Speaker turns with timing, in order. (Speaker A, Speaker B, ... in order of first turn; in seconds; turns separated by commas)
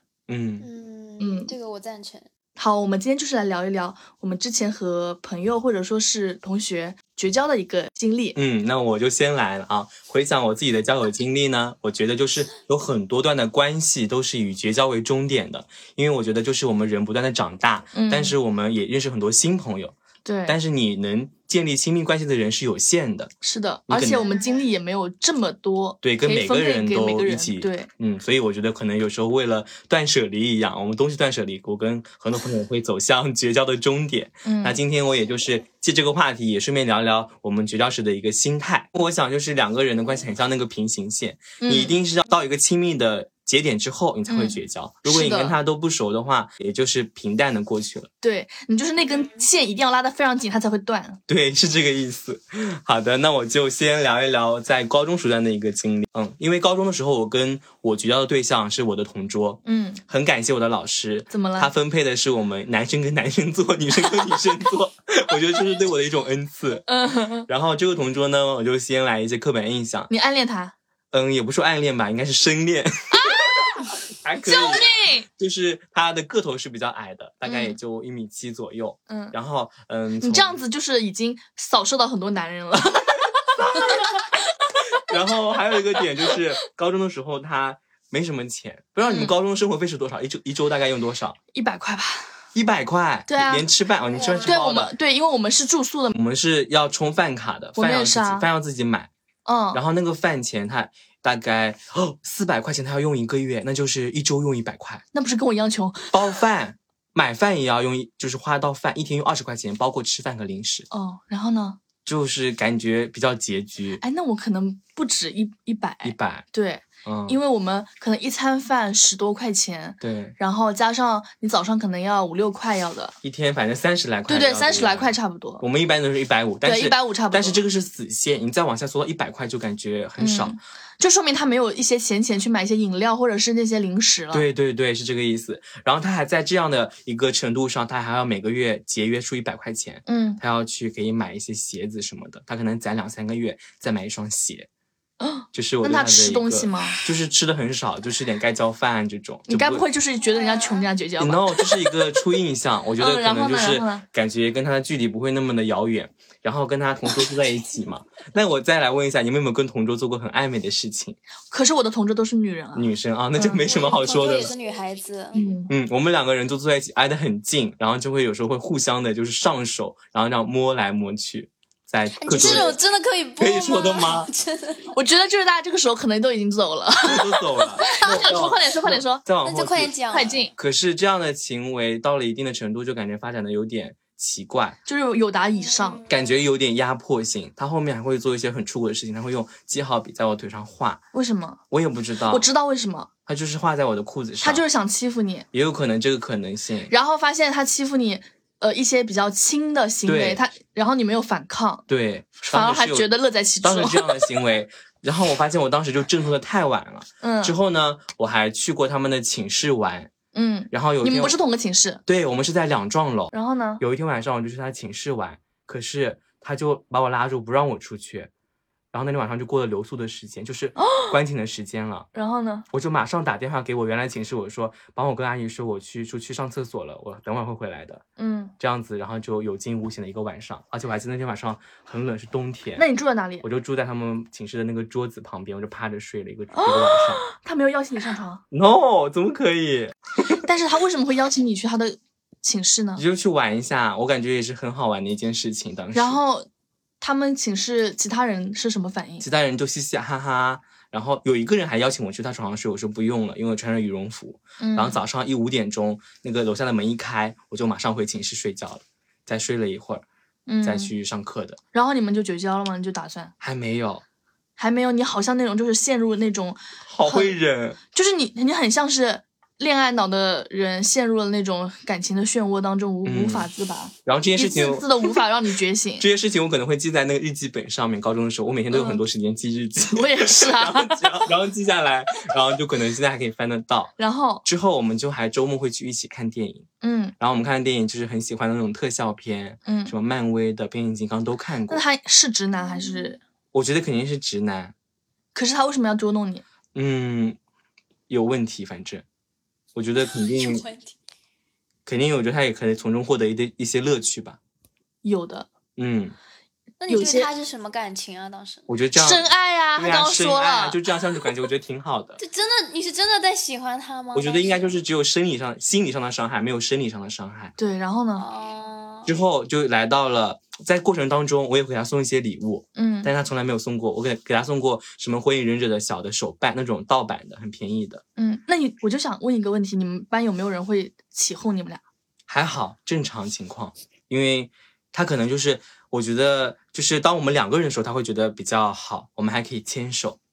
Speaker A: 0.3-0.7, Speaker B: 0.6-2.3, Speaker C: 1.2-1.5, Speaker C: 2.6-8.4, Speaker A: 8.4-23.3, Speaker C: 17.9-18.4, Speaker C: 20.2-20.6, Speaker C: 23.4-27.9, Speaker A: 23.9-24.2, Speaker B: 24.1-24.6, Speaker A: 26.0-48.1, Speaker C: 34.4-34.8, Speaker C: 41.6-42.0, Speaker C: 44.3-45.6, Speaker C: 48.2-51.2, Speaker A: 51.3-66.8, Speaker C: 59.6-60.0, Speaker C: 61.3-61.7, Speaker C: 66.9-67.5, Speaker A: 67.5-70.1, Speaker C: 70.1-70.7, Speaker A: 71.1-73.3, Speaker C: 73.1-73.9, Speaker A: 74.2-80.6, Speaker C: 74.4-75.3, Speaker C: 77.4-77.8, Speaker C: 79.1-79.3, Speaker C: 80.2-84.2, Speaker A: 85.0-91.4, Speaker C: 85.9-86.4, Speaker C: 89.1-89.3, Speaker C: 91.5-92.3, Speaker A: 92.5-94.9, Speaker C: 93.3-93.7, Speaker B: 94.1-94.5, Speaker C: 94.4-96.2, Speaker A: 96.1-99.1, Speaker C: 97.8-98.5, Speaker C: 99.5-99.8, Speaker A: 99.7-105.0, Speaker C: 105.1-106.2, Speaker A: 106.1-110.9, Speaker C: 110.9-111.8, Speaker A: 112.0-114.0, Speaker C: 114.0-123.2, Speaker A: 116.0-116.4, Speaker A: 117.0-117.4, Speaker A: 120.0-120.3, Speaker A: 123.2-130.6, Speaker C: 124.3-125.6, Speaker C: 126.6-127.6, Speaker C: 130.2-134.4, Speaker A: 134.3-144.7, Speaker C: 140.1-140.4, Speaker C: 145.2-147.0, Speaker A: 145.5-149.8, Speaker C: 149.5-152.2, Speaker B: 150.4-150.9, Speaker A: 151.2-161.2, Speaker C: 153.0-154.1, Speaker C: 161.5-163.7, Speaker A: 162.8-164.5, Speaker B: 163.5-165.6, Speaker C: 165.3-165.7, Speaker A: 165.7-172.8, Speaker B: 172.2-174.9, Speaker C: 172.3-172.7, Speaker A: 173.4-174.3, Speaker C: 174.9-179.2, Speaker A: 177.1-179.9, Speaker B: 179.4-180.4, Speaker C: 180.1-180.5, Speaker A: 180.5-184.8, Speaker C: 184.9-186.0, Speaker B: 185.6-186.5, Speaker A: 186.1-191.0, Speaker C: 191.1-191.6, Speaker A: 191.7-192.5, Speaker C: 192.3-193.1, Speaker A: 193.2-194.6, Speaker C: 194.4-195.5, Speaker A: 195.5-196.9, Speaker C: 196.9-201.8, Speaker A: 200.1-200.4, Speaker A: 201.9-203.1, Speaker C: 202.4-204.3, Speaker A: 203.6-210.1, Speaker C: 207.2-207.6, Speaker C: 210.3-212.0, Speaker A: 210.7-211.4, Speaker A: 212.1-218.3, Speaker C: 213.3-213.8, Speaker A: 218.9-222.1, Speaker C: 220.8-221.1, Speaker C: 222.1-222.7, Speaker A: 222.7-228.0, Speaker C: 228.2-228.5, Speaker A: 228.6-232.9, Speaker C: 232.8-233.4, Speaker A: 233.4-237.2, Speaker C: 236.5-238.4, Speaker A: 238.5-239.9, Speaker C: 240.3-243.0, Speaker A: 242.9-246.2, Speaker C: 245.9-246.5, Speaker C: 247.0-249.3, Speaker A: 249.2-260.0, Speaker C: 254.6-255.0, Speaker C: 260.5-260.9, Speaker A: 260.6-261.6, Speaker C: 261.7-263.3, Speaker A: 263.4-264.0, Speaker C: 264.6-267.4, Speaker A: 266.9-267.8, Speaker C: 267.9-276.1, Speaker A: 273.1-273.5, Speaker A: 274.1-275.1, Speaker A: 276.0-283.9, Speaker C: 278.7-279.0, Speaker C: 279.9-281.3, Speaker C: 284.0-284.4, Speaker A: 284.4-286.7, Speaker C: 286.8-287.1, Speaker A: 287.2-291.8, Speaker C: 289.6-289.9, Speaker C: 291.7-293.2, Speaker B: 292.6-293.1, Speaker A: 293.5-294.7, Speaker C: 295.3-296.4, Speaker A: 296.7-297.4, Speaker A: 298.1-299.1, Speaker A: 299.8-300.6, Speaker B: 300.0-300.9, Speaker A: 301.9-304.4, Speaker C: 305.0-305.5, Speaker A: 305.8-306.1, Speaker B: 306.8-308.7, Speaker C: 306.9-307.3, Speaker A: 308.7-312.2, Speaker C: 309.0-310.8, Speaker B: 312.2-314.8, Speaker A: 314.1-317.5, Speaker C: 317.6-318.2, Speaker B: 318.1-319.1, Speaker A: 319.1-328.0, Speaker C: 322.8-323.1, Speaker C: 328.2-331.8, Speaker A: 332.3-340.2